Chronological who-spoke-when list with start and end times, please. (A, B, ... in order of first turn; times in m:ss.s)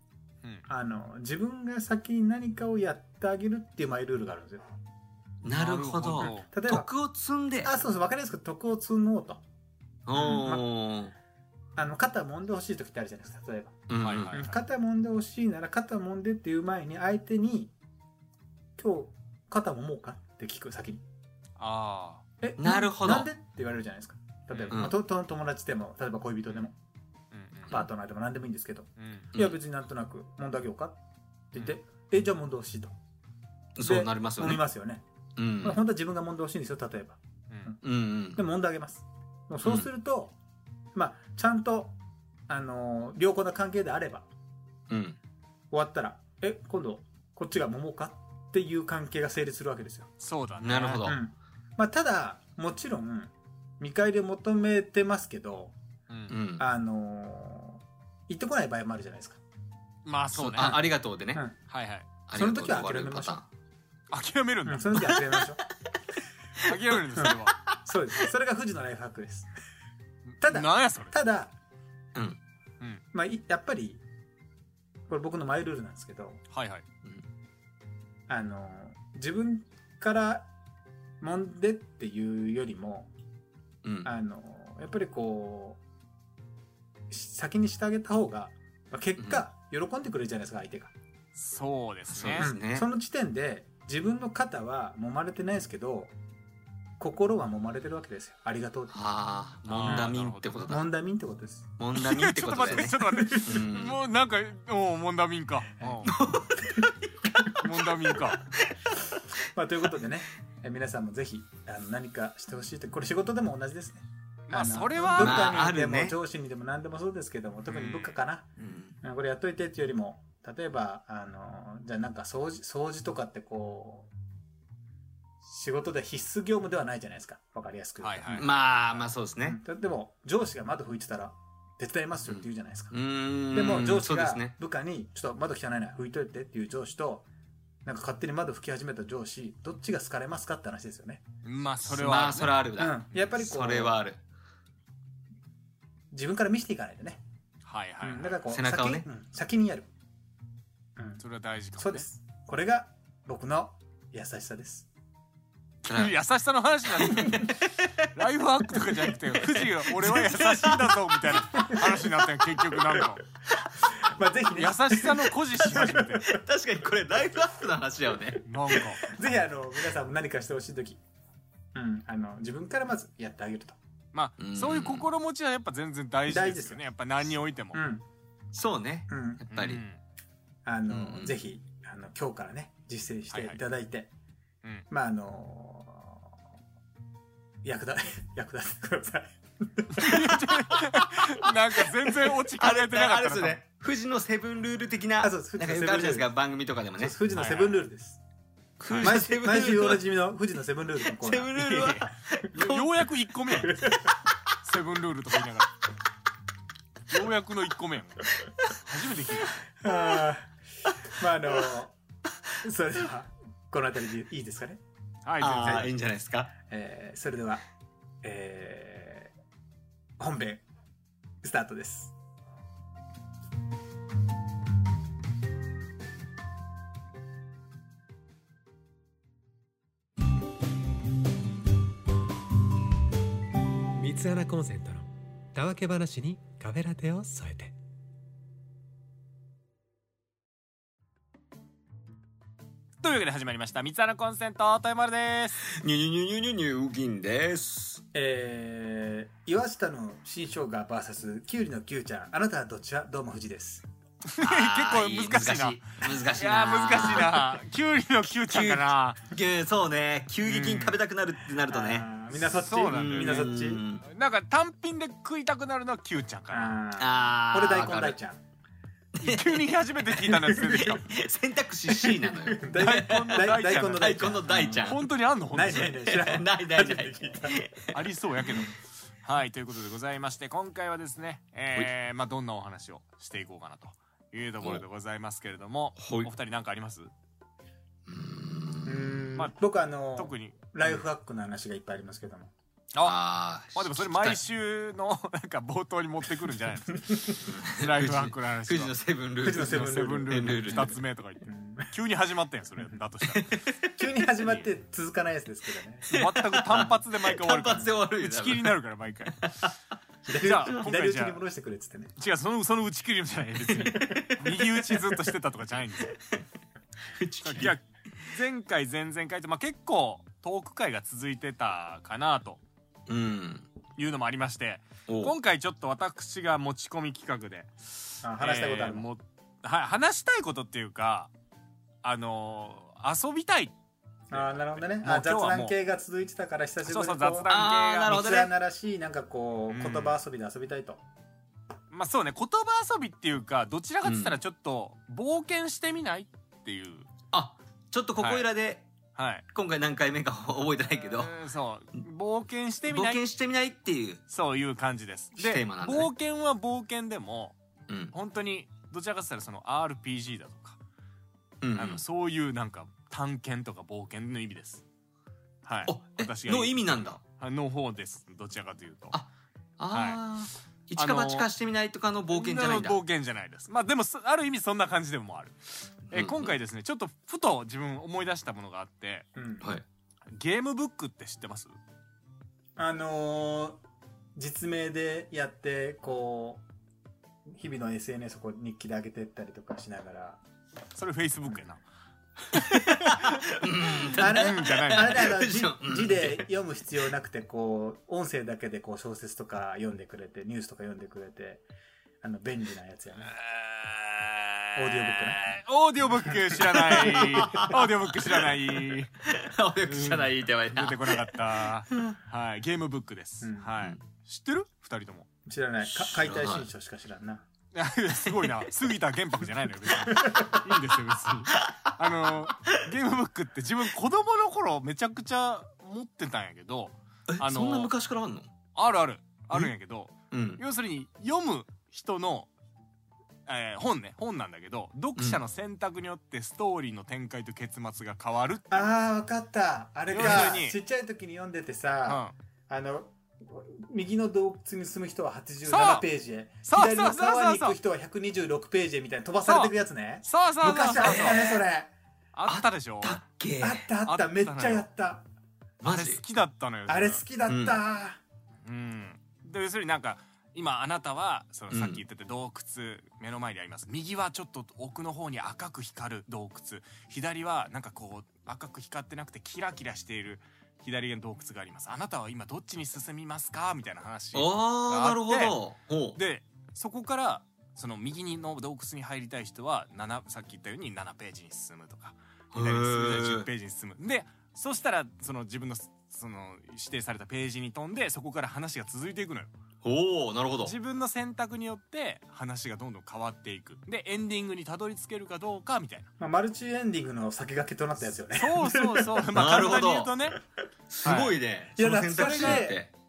0:00.7-0:04.7 A
0:05.4-0:07.7 B
0:05.5-0:06.5 C
0:06.2-0:06.9 A
0:07.6-0:09.4 A
0:10.1-0:11.1 B
0:10.1-0:10.6 A
0:11.8-0:17.7 A
0:13.9-0:14.4 B
0:14.0-0:14.6 C
0:18.8-0:21.0 A
0:21.6-0:22.2 C
0:22.4-0:26.8 A
0:22.6-0:23.3 B
0:24.5-0:24.8 C
0:27.3-0:27.8 C
0:27.7-0:31.0 A
0:29.0-0:29.3 C
0:31.5-0:33.0 A
0:33.8-0:34.6 B
0:33.8-0:35.0 A
0:35.4-0:35.8 B
0:35.6-0:37.8 A
0:37.5-0:37.8 C
0:37.8-0:38.4 B
0:38.4-0:40.4 A
0:39.6-0:39.9 B
0:40.9-0:42.0 A
0:42.5-0:44.3 A
0:44.9-0:45.2 B
0:45.7-0:50.1 A
0:50.2-0:51.1 C
0:50.6-0:51.2 B
0:51.1-0:55.8 A
0:56.1-0:56.4 C
0:56.3-0:56.6 B
0:56.6-0:59.4 A
1:00.0-1:00.8 C
1:00.3-1:01.4 B
1:00.6-1:01.6 A
1:01.7-1:02.1 C
1:02.3-1:03.5 B
1:02.3-1:03.4 A
1:04.1-1:05.1 C
1:04.7-1:05.6 A
1:05.0-1:05.5 B
1:06.6-1:07.6 C
1:07.2-1:09.5 A
1:07.2-1:07.6 B
1:10.4-1:11.2 C
1:10.4-1:11.5 A
1:13.1-1:14.0 A
1:15.1-1:16.4 A
1:16.5-1:16.8 C
1:18.3-1:20.5 A
1:21.2-1:23.1 A
1:23.8-1:24.1 B
1:24.0-1:25.8 A
1:27.1-1:30.9 A
1:29.2-1:29.4 B
1:31.4-1:32.5 C
1:32.1-1:32.9 B
1:32.4-1:36.1 A
1:37.0-1:39.0 A
1:38.9-1:40.8 B
1:39.7-1:40.6 C
1:39.8-1:41.7 A
1:41.8-1:44.0 B
1:42.0-1:46.1 C
1:42.7-1:43.6 A
1:46.0-1:48.7 B
1:47.6-1:48.5 C
1:49.5-1:58.5 A
1:54.5-1:55.6 C
1:55.2-1:56.2 B
1:57.7-1:58.2 C
1:58.6-1:59.0 B
1:59.0-2:04.1 A
2:05.4-2:13.0 A
2:08.0-2:08.6 C
2:08.4-2:09.6 B
2:12.3-2:14.6 B
2:13.5-2:17.3 A
2:17.8-2:21.2 A
2:21.4-2:22.6 C
2:21.8-2:24.2 B
2:22.8-2:24.0 A
2:26.1-2:27.2 A
2:27.6-2:28.4 C
2:28.0-2:29.9 A
2:28.5-2:29.1 B
2:31.0-2:31.2 A
2:31.2-2:32.1 C
2:31.8-2:34.9 A
2:35.8-2:37.6 C
2:35.9-2:36.2 B
2:37.0-2:38.0 B
2:38.1-2:43.2 C
2:39.4-2:41.9 B
2:44.0-2:46.4 A
2:44.6-2:46.3 C
2:46.3-2:48.5 B
2:48.4-2:49.0 C
2:49.0-2:51.0 A
2:51.7-2:53.8 A
2:54.1-2:57.8 C
2:54.4-2:55.1 B
2:56.3-2:56.8 A
2:57.7-2:58.0 A
2:58.5-2:59.8 B
2:59.1-2:59.4 A
2:59.5-3:00.0 C
3:00.6-3:04.1 A
3:00.9-3:01.4 B
3:03.3-3:03.6 C
3:04.9-3:06.3 A
3:07.6-3:10.3 A
3:09.9-3:13.6 C
3:10.0-3:11.1 B
3:12.1-3:17.2 B
3:15.2-3:16.3 A
3:17.0-3:18.2 A
3:17.3-3:17.8 C
3:18.8-3:20.0 B
3:18.9-3:19.2 C
3:19.0-3:21.6 A
3:21.2-3:23.1 B
3:21.6-3:23.9 C
3:23.6-3:24.2 A
3:24.6-3:25.7 C
3:27.1-3:28.3 C
3:28.8-3:29.6 C
3:29.8-3:30.6 A
3:31.1-3:32.0 A
3:32.6-3:34.8 A
3:35.2-3:35.9 C
3:35.4-3:36.5 B
3:35.6-3:35.9 A
3:36.6-3:37.6 A
3:38.2-3:39.3 A
3:40.2-3:40.6 A
3:41.4-3:42.1 A
3:54.0-3:57.8 D
4:03.0-4:05.6 C
4:05.6-4:08.0 B
4:08.1-4:13.9 A
4:14.3-4:19.2 C
4:14.4-4:17.6 B
4:18.5-4:22.1 B
4:20.4-4:21.0 C
4:21.7-4:23.8 A
4:22.5-4:26.8 C
4:22.8-4:24.0 B
4:26.5-4:28.4 A
4:27.0-4:28.2 B
4:29.2-4:35.0 B
4:29.2-4:31.1 C
4:31.9-4:37.6 A
4:32.7-4:36.0 C
4:35.8-4:38.7 B
4:37.9-4:47.1 C
4:46.0-4:46.3 B
4:48.1-4:49.3 B
4:48.8-4:52.5 A
4:50.2-4:50.6 C
4:53.0-4:54.4 B
4:53.7-4:59.0 C
4:57.1-4:57.4 A
4:57.4-5:01.0 B
4:59.4-5:00.9 A
4:59.5-5:03.5 C
5:01.4-5:01.9 A
5:03.4-5:03.8 B
5:04.0-5:06.1 A
5:06.1-5:09.6 C
5:06.1-5:09.7 B
5:10.3-5:12.1 A
5:10.3-5:11.4 C
5:10.5-5:10.8 B
5:12.2-5:16.2 C
5:13.8-5:15.0 B
5:17.1-5:17.8 B
5:17.4-5:22.6 C
5:23.1-5:23.7 B
5:24.0-5:31.3 C
5:25.1-5:25.3 B
5:28.2-5:29.1 A
5:32.0-5:33.8 C
5:34.3-5:37.5 A
5:34.3-5:35.8 C
5:36.8-5:38.2 C
5:37.5-5:38.5 B
5:38.0-5:41.0 A
5:39.7-5:40.2 C
5:41.9-5:47.1 C
5:44.0-5:44.4 B
5:47.3-5:48.9 B
5:48.2-5:48.5 C
5:49.2-5:49.4 C
5:49.5-5:51.4 B
5:50.9-5:53.2 C
5:52.9-5:54.2 B
5:54.3-5:57.6 C
5:55.4-5:56.1 B
5:57.9-5:58.2 B
5:58.1-6:00.8 C
6:01.6-6:02.0 B
6:01.8-6:04.8 C
6:05.7-6:09.2 C
6:05.9-6:07.2 B
6:09.8-6:13.0 B
6:09.9-6:10.2 C
6:11.0-6:11.5 C
6:12.3-6:19.3 C
6:16.1-6:16.5 B
6:19.4-6:19.7 A
6:20.3-6:21.7 C
6:22.8-6:23.8 A
6:24.4-6:26.6 A
6:27.5-6:30.4 A
6:31.0-6:31.8 C
6:32.5-6:33.4 C
6:32.7-6:36.5 B
6:34.0-6:35.3 C
6:34.1-6:41.6 A
6:42.2-6:43.3 A
6:43.2-6:49.1 C
6:44.8-6:45.4 A
6:46.8-6:52.2 B
6:49.8-6:55.3 C
6:53.4-6:53.7 A
6:55.5-6:57.4 A
6:55.8-6:56.7 B
6:57.7-7:07.9 C
7:07.3-7:08.5 B
7:08.8-7:12.5 C
7:10.3-7:10.6 B
7:13.5-7:18.9 C
7:18.7-7:31.9 A
7:20.1-7:20.8 C
7:22.1-7:22.4 C
7:25.6-7:26.1 C
7:26.6-7:27.8 C
7:29.5-7:29.7 C
7:30.2-7:31.4 C
7:31.0-7:31.6 B
7:32.3-7:33.2 C
7:32.5-7:33.9 B
7:33.6-7:35.3 A
7:34.0-7:34.9 C
7:35.8-7:36.2 B
7:35.8-7:37.2 C
7:36.9-7:38.2 A
7:37.5-7:37.8 B
7:38.6-7:55.6 C
7:41.7-7:42.0 B
7:54.3-7:56.2 B
7:56.2-8:09.5 C
8:02.5-8:03.5 B
8:09.8-8:10.8 B
8:10.6-8:16.1 C
8:16.2-8:19.4 A
8:18.3-8:20.4 C
8:19.3-8:20.3 B
8:20.9-8:22.9 B
8:21.0-8:21.3 C
8:21.8-8:22.8 A